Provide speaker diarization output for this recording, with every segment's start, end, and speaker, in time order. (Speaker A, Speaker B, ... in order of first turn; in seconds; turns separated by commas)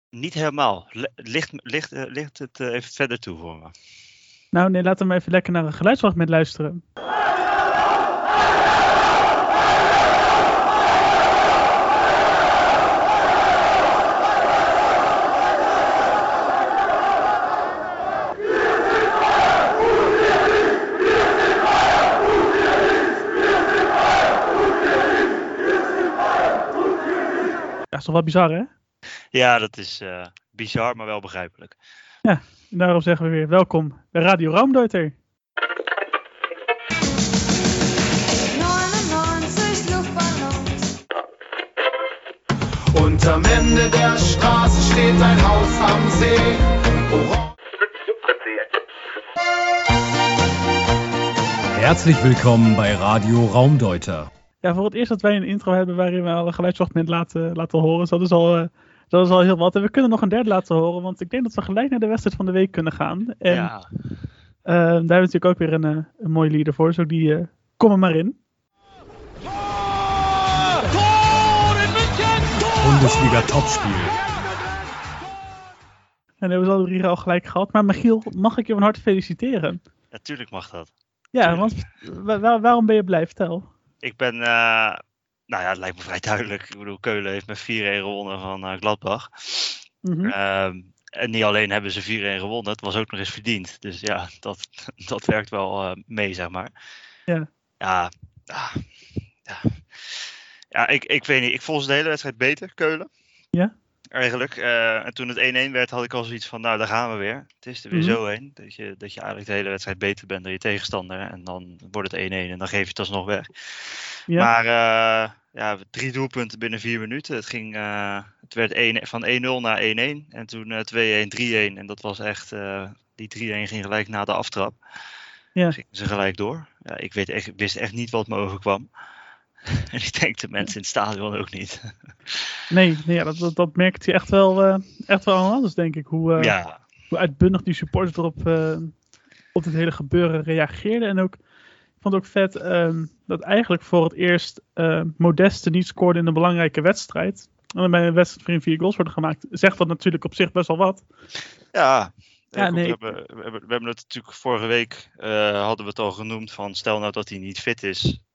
Speaker A: 0.1-3.7, Speaker B: 4.5-6.8, Speaker B: 27.9-28.7, Speaker A: 29.3-31.8, Speaker B: 32.2-35.1, Speaker C: 38.5-40.9, Speaker D: 42.9-47.4, Speaker E: 51.7-54.3, Speaker B: 54.6-63.7, Speaker A: 63.5-63.9, Speaker B: 64.7-68.4, Speaker E: 72.8-74.2, Speaker B: 76.4-79.8, Speaker A: 80.1-80.9, Speaker B: 81.3-83.7, Speaker A: 81.4-81.7, Speaker A: 84.0-96.7, Speaker B: 90.0-90.3, Speaker A: 97.8-98.9, Speaker A: 99.4-103.1, Speaker A: 104.1-124.8, Speaker B: 107.9-108.2, Speaker A: 125.7-128.9, Speaker A: 129.7-132.6, Speaker B: 132.7-136.6, Speaker A: 136.4-136.8, Speaker B: 137.1-138.9, Speaker B: 139.6-141.4, Speaker B: 142.0-151.0, Speaker A: 151.7-158.2, Speaker B: 152.6-153.0